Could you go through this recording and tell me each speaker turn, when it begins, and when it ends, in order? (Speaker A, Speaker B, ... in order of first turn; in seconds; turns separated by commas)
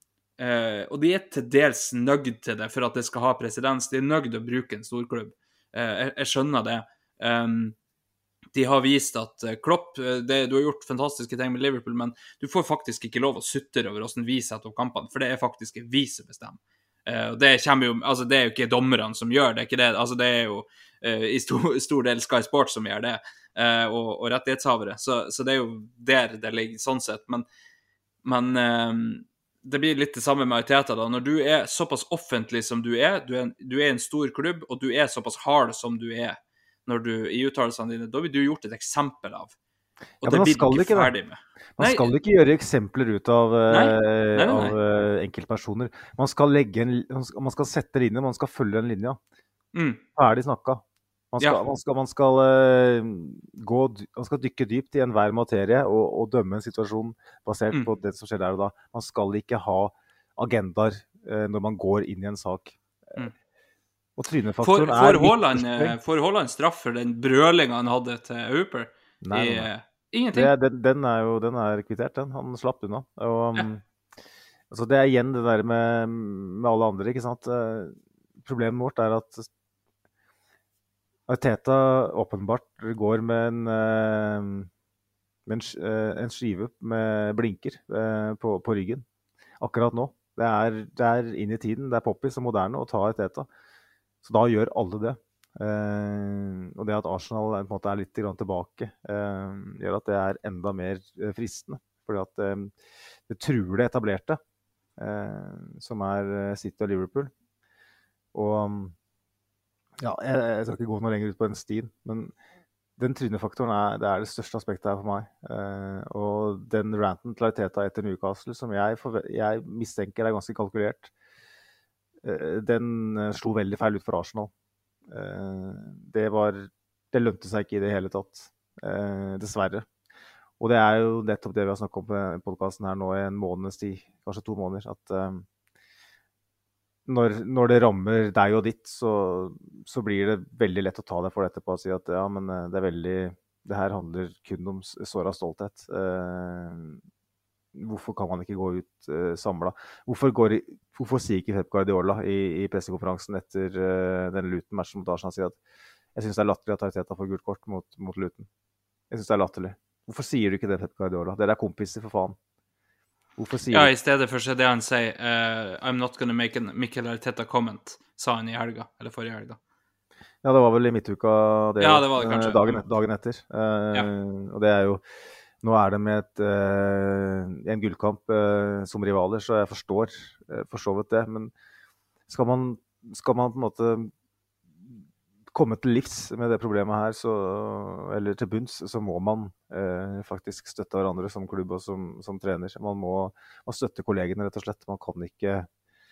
Speaker A: 0.4-7.8, Speaker A: 8.5-27.4, Speaker A: 28.2-39.5, Speaker A: 40.2-42.1, Speaker B: 40.2-41.1, Speaker B: 41.8-49.2, Speaker A: 43.7-44.8, Speaker A: 49.7-50.0, Speaker B: 50.1-62.8, Speaker B: 64.2-66.0, Speaker A: 64.6-70.5, Speaker B: 69.2-69.7, Speaker B: 70.3-73.8, Speaker B: 74.7-79.5, Speaker B: 81.3-84.7, Speaker B: 85.5-89.0, Speaker B: 89.6-93.5, Speaker B: 94.2-102.7, Speaker B: 103.3-104.4, Speaker B: 105.0-107.3, Speaker B: 108.3-108.9, Speaker B: 110.0-112.3, Speaker B: 113.0-121.1, Speaker B: 122.2-124.5, Speaker B: 125.1-129.9, Speaker B: 130.6-135.4, Speaker B: 137.1-147.0, Speaker B: 147.7-155.6, Speaker B: 156.1-158.5, Speaker B: 159.1-162.4, Speaker B: 163.4-163.9, Speaker A: 163.7-169.6, Speaker B: 170.4-175.0, Speaker A: 171.8-172.8, Speaker B: 175.6-181.5, Speaker B: 182.3-184.1, Speaker B: 185.5-195.7